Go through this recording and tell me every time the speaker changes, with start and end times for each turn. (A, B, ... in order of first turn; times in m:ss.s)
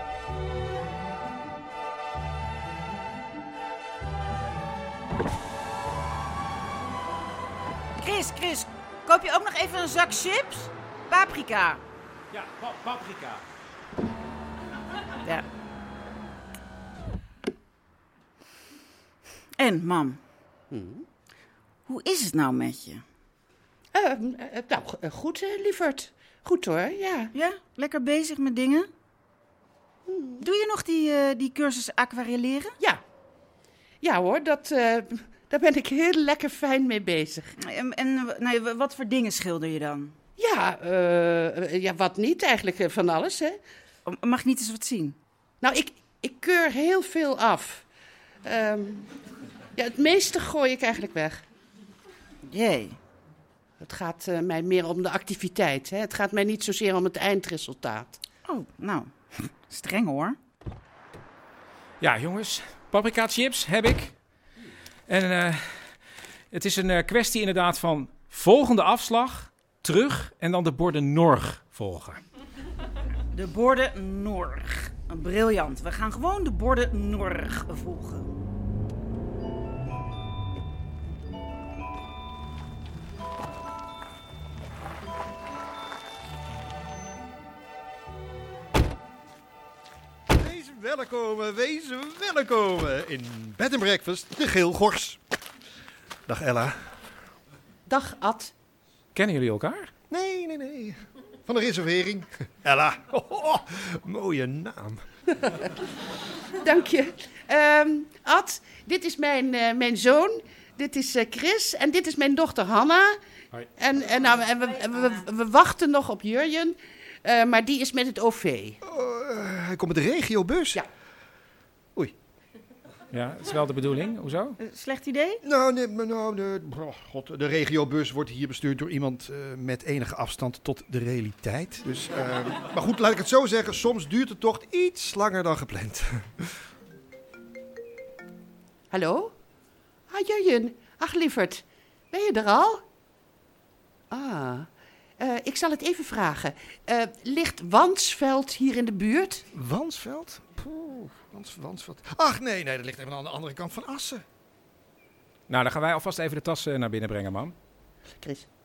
0:08.0-0:11.8 A
0:12.3-0:13.4 B
0:19.6-0:20.2 A
0:20.7-0:21.0 C
0:21.9-0:23.0 A
0:23.9-0:27.3 C
0:27.3-0:28.9 A
0:30.1-0:30.4 C
0:30.4-0:32.8 A
0:34.0-0:37.5 C
0:37.6-0:40.2 A
0:40.4-0:43.6 C
0:44.1-0:45.2 A
0:45.6-0:47.8 C
0:48.4-0:49.1 C
0:49.8-0:51.4 C
0:52.5-0:53.0 A
0:53.8-0:58.2 C
0:58.5-1:00.4 A
1:02.0-1:04.1 B
1:05.1-1:06.0 B
1:06.5-1:12.2 B
1:13.3-1:18.3 A
1:30.3-1:35.2 D
1:36.3-1:36.9 D
1:37.9-1:38.5 C
1:39.2-1:39.9 B
1:40.1-1:45.0 D
1:46.6-1:53.2 C
1:53.8-1:58.8 C
1:54.6-1:55.2 A
1:58.8-2:00.8 D
2:03.1-2:04.6 B
2:04.6-2:05.4 A
2:05.4-2:16.6 D
2:18.9-2:19.3 C
2:20.1-2:22.8 C
2:24.1-2:24.7 C
2:25.2-2:29.4 C
2:29.5-2:34.2 D
2:35.5-2:37.5 B
2:38.2-2:38.5 C